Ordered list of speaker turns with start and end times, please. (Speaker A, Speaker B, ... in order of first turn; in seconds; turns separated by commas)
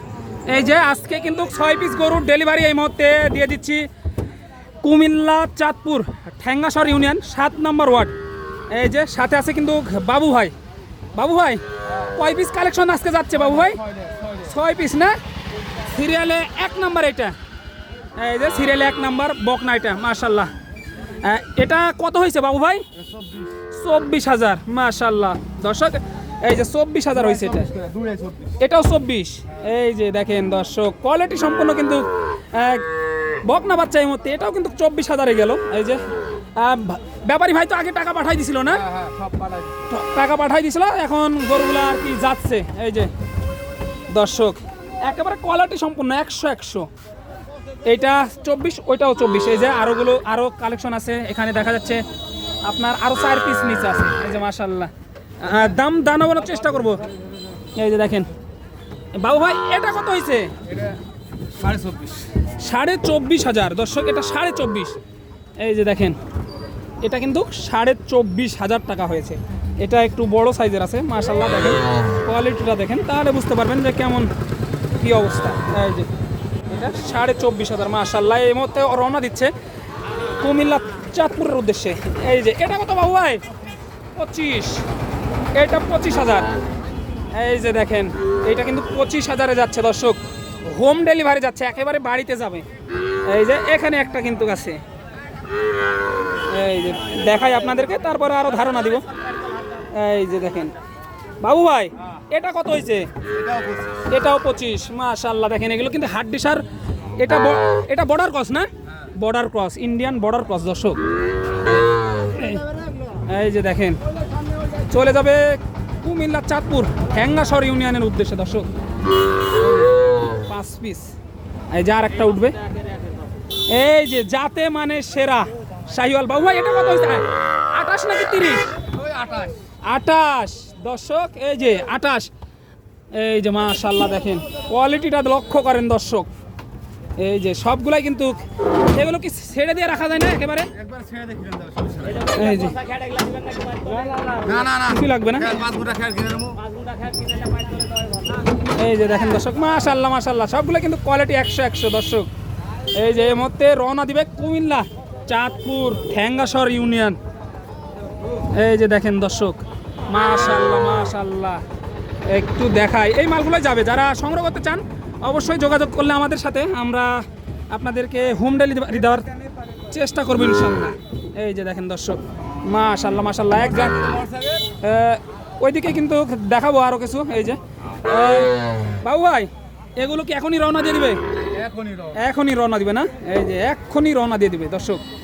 Speaker A: 0.5-3.9, Speaker A: 4.8-8.1, Speaker A: 8.7-10.5, Speaker A: 11.2-15.2, Speaker A: 15.8-17.4, Speaker A: 18.2-20.5, Speaker A: 21.2-22.9, Speaker A: 23.7-27.8, Speaker B: 27.7-28.5, Speaker A: 28.6-39.0, Speaker B: 39.1-39.5, Speaker A: 39.8-43.1, Speaker A: 44.1-46.9, Speaker A: 47.9-52.0, Speaker A: 52.7-57.0, Speaker A: 57.8-58.3, Speaker A: 59.1-60.6, Speaker B: 61.6-62.2, Speaker A: 62.4-65.0, Speaker A: 65.6-66.2, Speaker A: 67.0-74.3, Speaker A: 75.0-76.1, Speaker A: 76.7-79.5, Speaker A: 80.4-83.4, Speaker A: 84.2-84.9, Speaker A: 85.5-86.5, Speaker A: 87.3-92.7, Speaker A: 93.3-94.8, Speaker A: 96.5-99.0, Speaker A: 99.8-100.8, Speaker A: 101.4-103.1, Speaker B: 103.5-103.8, Speaker A: 104.0-111.0, Speaker A: 112.2-114.0, Speaker A: 114.9-118.7, Speaker A: 120.4-121.1, Speaker A: 121.7-122.6, Speaker A: 123.7-128.7, Speaker A: 129.9-132.3, Speaker A: 133.1-136.3, Speaker A: 137.2-140.8, Speaker B: 140.8-142.3, Speaker A: 142.2-142.9, Speaker B: 143.1-144.8, Speaker A: 144.5-145.7, Speaker B: 145.5-148.1, Speaker A: 148.7-152.3, Speaker A: 152.9-157.2, Speaker A: 158.4-161.6, Speaker A: 162.2-181.2, Speaker B: 174.3-174.6, Speaker B: 181.6-182.1, Speaker A: 182.1-185.0